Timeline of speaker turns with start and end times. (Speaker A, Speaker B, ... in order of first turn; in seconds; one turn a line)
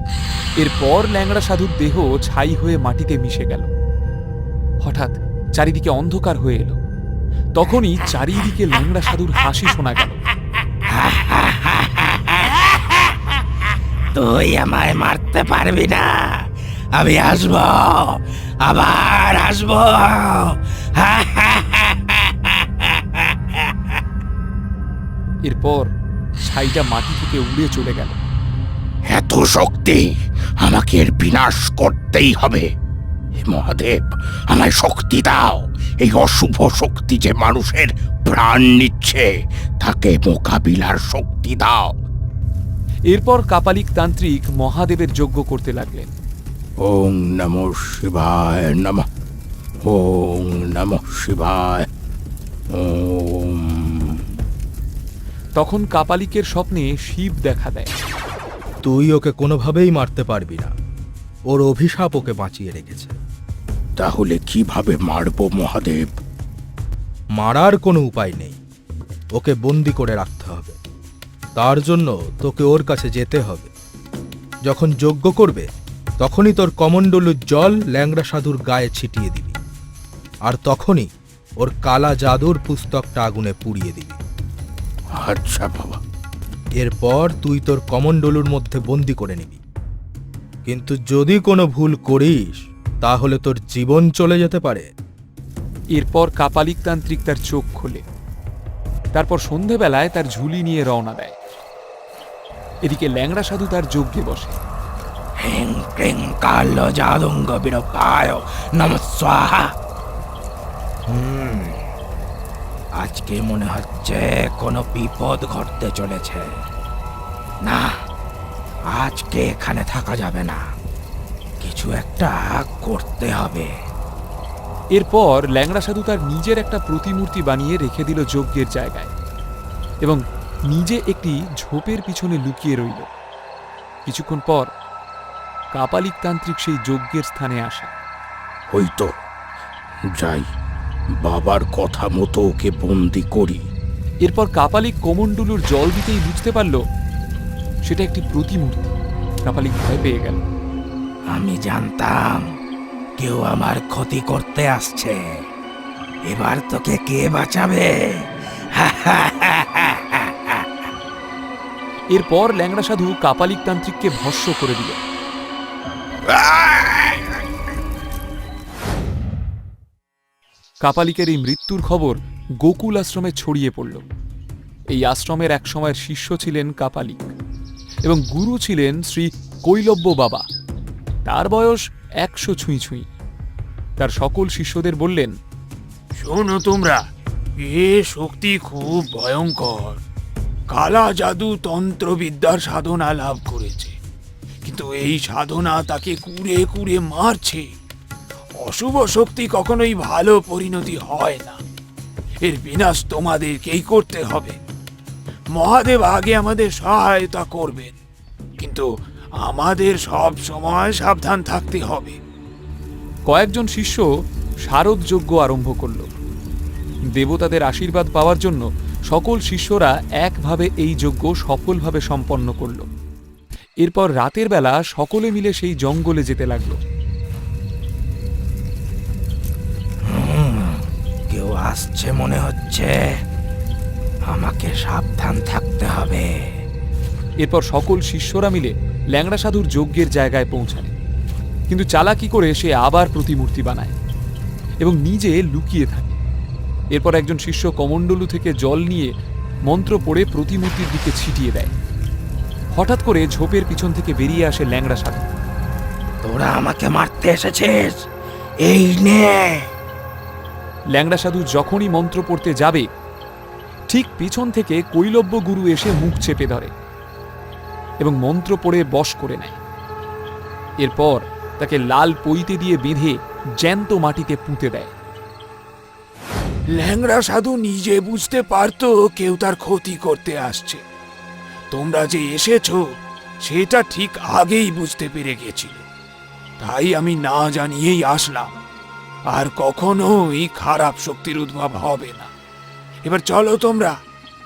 Speaker A: 0.6-3.7
Speaker A: 4.8-6.8
Speaker A: 7.5-10.2
Speaker B: 10.9-12.6
Speaker B: 14.1-16.3
Speaker B: 16.9-23.7
Speaker A: 25.4-25.9
Speaker A: 26.4-28.2
Speaker C: 29.1-30.0
Speaker C: 30.6-32.7
Speaker C: 33.4-39.3
Speaker C: 39.8-42.0
Speaker A: 43.1-46.1
Speaker C: 46.8-49.0
Speaker C: 49.9-51.9
Speaker C: 52.8-54.2
Speaker A: 55.5-57.9
Speaker D: 58.8-60.7
Speaker D: 61.5-63.1
Speaker C: 64.0-66.1
Speaker D: 67.4-68.6
Speaker D: 69.4-70.8
Speaker D: 71.6-73.7
Speaker D: 74.7-75.7
Speaker D: 76.2-79.6
Speaker D: 80.5-81.1
Speaker D: 81.6-84.2
Speaker C: 85.1-86.0
Speaker D: 86.8-89.6
Speaker D: 90.7-94.9
Speaker A: 96.0-98.0
Speaker A: 99.1-101.3
Speaker A: 102.8-104.5
Speaker B: 105.4-109.7
Speaker B: 111.1-111.8
Speaker B: 113.0-116.5
Speaker B: 118.9-120.6
Speaker B: 121.6-123.7
Speaker A: 125.0-129.1
Speaker A: 130.7-133.1
Speaker A: 134.1-134.7
Speaker A: 135.7-137.9
Speaker C: 138.7-139.1
Speaker C: 140.2-140.4
Speaker C: 141.2-143.7
Speaker A: 144.2-146.8
Speaker A: 147.9-150.4
Speaker B: 151.3-152.4
Speaker B: 153.2-155.2
Speaker B: 156.3-157.9
Speaker B: 158.8-160.6
Speaker A: 162.1-165.0
Speaker C: 166.3-167.2
Speaker A: 170.8-174.0
Speaker A: 174.9-177.3
Speaker A: 178.0-180.4
Speaker A: 181.2-183.1
Speaker A: 184.0-185.3
Speaker E: 186.2-187.0
Speaker E: 187.6-190.0
Speaker E: 190.7-193.9
Speaker E: 194.6-197.7
Speaker E: 198.6-201.6
Speaker E: 202.4-204.6
Speaker E: 205.5-207.9
Speaker E: 208.6-208.9
Speaker E: 209.4-212.2
Speaker A: 213.3-214.1
Speaker A: 214.7-216.1
Speaker A: 217.1-222.9
Speaker A: 223.8-226.8
Speaker B: 230.1-230.8
Speaker B: 231.3-232.9
Speaker B: 234.3-236.2
Speaker A: 237.4-240.9
Speaker A: 241.7-243.9
Speaker A: 244.8-246.2
Speaker A: 246.9-249.1
Speaker A: 249.7-251.7
Speaker A: 252.8-255.3
Speaker B: 256.2-257.9
Speaker B: 258.6-259.7
Speaker A: 260.9-262.8
Speaker A: 263.9-266.7
Speaker A: 268.0-269.6
Speaker A: 270.8-274.9
Speaker E: 276.7-280.8
Speaker E: 281.7-282.8
Speaker E: 283.4-285.9
Speaker E: 286.6-288.5
Speaker E: 289.3-292.3
Speaker E: 293.0-293.9